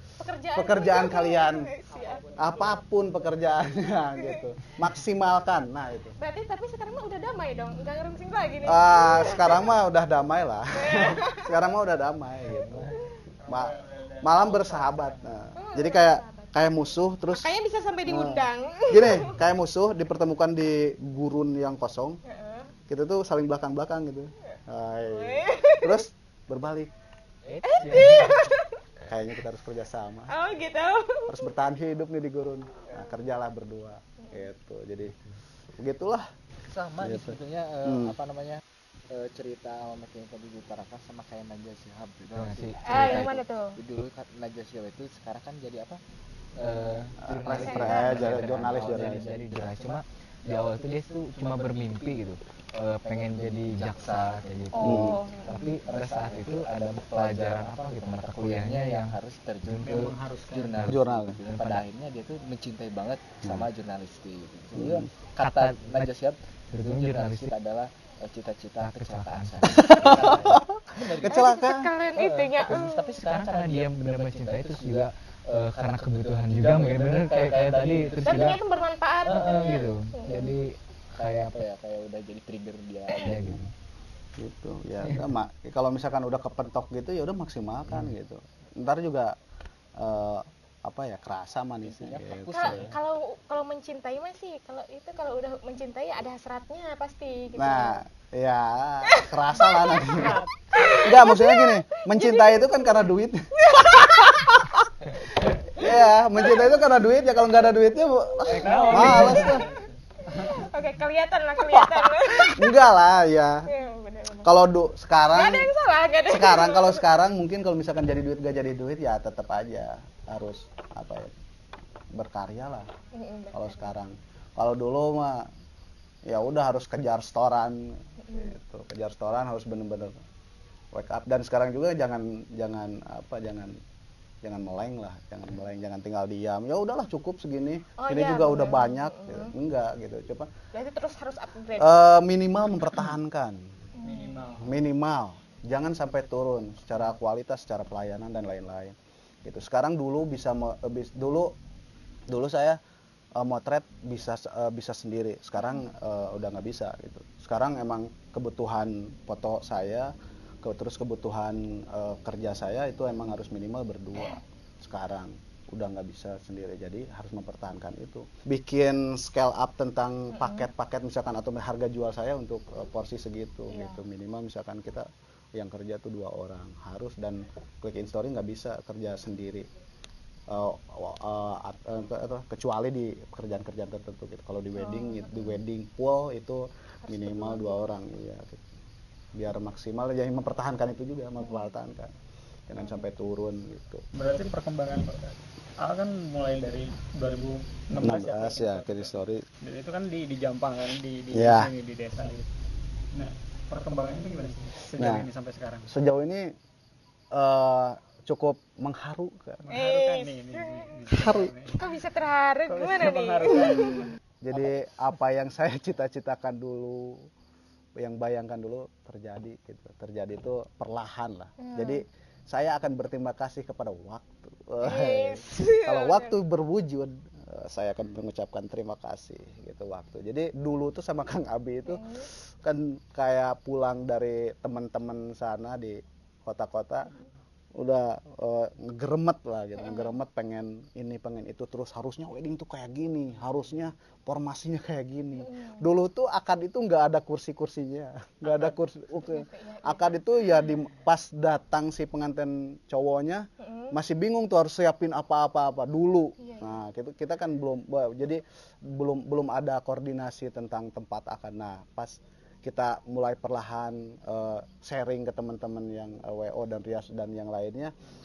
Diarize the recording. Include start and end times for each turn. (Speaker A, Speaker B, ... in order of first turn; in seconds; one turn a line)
Speaker A: 0.2-2.3
Speaker B: 0.5-1.7
Speaker C: 1.9-2.8
Speaker B: 2.4-6.2
Speaker D: 2.4-2.8
Speaker A: 4.2-4.4
Speaker A: 6.2-9.6
Speaker B: 8.6-12.9
Speaker A: 10.7-11.4
Speaker D: 13.4-15.2
Speaker B: 13.5-17.5
Speaker A: 15.6-16.5
Speaker A: 17.3-19.4
Speaker B: 18.1-22.2
Speaker A: 22.2-22.7
Speaker B: 22.9-26.9
Speaker A: 25.1-26.0
Speaker C: 27.5-28.3
Speaker E: 27.5-28.4
Speaker A: 27.7-28.8
Speaker B: 29.0-30.3
Speaker A: 30.3-31.4
Speaker B: 31.3-35.1
Speaker B: 35.8-36.3
Speaker C: 36.7-46.0
Speaker B: 37.0-38.1
Speaker E: 42.3-43.4
Speaker A: 42.8-43.8
Speaker C: 46.6-47.0
Speaker E: 46.6-59.1
Speaker B: 47.2-49.2
Speaker A: 47.6-48.4
Speaker C: 48.3-50.0
Speaker C: 50.5-52.3
Speaker C: 52.8-71.5
Speaker A: 54.7-55.7
Speaker B: 54.8-55.2
Speaker E: 59.7-60.1
Speaker D: 59.9-60.7
Speaker E: 60.7-61.8
Speaker B: 60.9-61.4
Speaker B: 64.7-65.1
Speaker E: 65.4-66.1
Speaker E: 66.7-67.5
Speaker E: 68.8-70.5
Speaker B: 69.7-71.9
Speaker A: 71.3-73.1
Speaker C: 72.1-78.6
Speaker E: 73.2-78.6
Speaker A: 78.2-80.6
Speaker C: 79.2-80.6
Speaker E: 79.3-81.6
Speaker C: 81.1-83.6
Speaker E: 83.1-83.7
Speaker B: 84.4-89.3
Speaker B: 90.0-92.9
Speaker C: 91.8-93.0
Speaker A: 92.5-98.0
Speaker B: 97.5-109.7
Speaker A: 99.1-104.6
Speaker C: 100.2-100.4
Speaker A: 105.8-107.0
Speaker A: 108.5-109.7
Speaker D: 108.5-110.6
Speaker C: 108.7-109.2
Speaker A: 110.2-112.7
Speaker B: 111.6-113.7
Speaker A: 113.7-114.5
Speaker B: 114.4-115.7
Speaker A: 115.3-117.0
Speaker B: 116.2-121.3
Speaker B: 122.1-122.9
Speaker A: 123.1-123.9
Speaker B: 123.5-125.5
Speaker B: 126.2-127.8
Speaker A: 128.2-128.5
Speaker B: 128.3-130.1
Speaker B: 130.9-133.8
Speaker B: 134.4-140.5
Speaker A: 138.0-139.5
Speaker A: 140.7-142.0
Speaker B: 141.8-143.6
Speaker A: 144.0-144.4
Speaker D: 144.0-144.8
Speaker B: 144.6-151.5
Speaker B: 152.3-152.8
Speaker B: 153.3-179.7
Speaker A: 170.3-170.7
Speaker A: 173.7-174.0
Speaker B: 180.5-188.6
Speaker A: 184.7-185.6
Speaker A: 187.0-187.8
Speaker B: 189.3-192.1
Speaker A: 191.4-191.7
Speaker B: 192.7-194.0
Speaker D: 194.1-202.5
Speaker B: 198.0-199.4
Speaker B: 201.3-201.7
Speaker D: 203.1-205.9
Speaker B: 205.0-205.3
Speaker B: 205.9-206.5
Speaker B: 207.3-209.7
Speaker D: 209.7-211.9
Speaker A: 209.7-210.8
Speaker B: 211.1-211.5
Speaker A: 211.8-214.1
Speaker D: 212.7-214.8
Speaker B: 214.4-217.3
Speaker B: 217.9-237.1
Speaker A: 221.6-222.0
Speaker A: 224.8-226.3
Speaker A: 231.8-232.3
Speaker B: 237.8-267.9
Speaker A: 239.8-240.2
Speaker A: 245.4-245.8
Speaker A: 248.4-250.2
Speaker A: 253.6-253.9
Speaker A: 256.4-256.8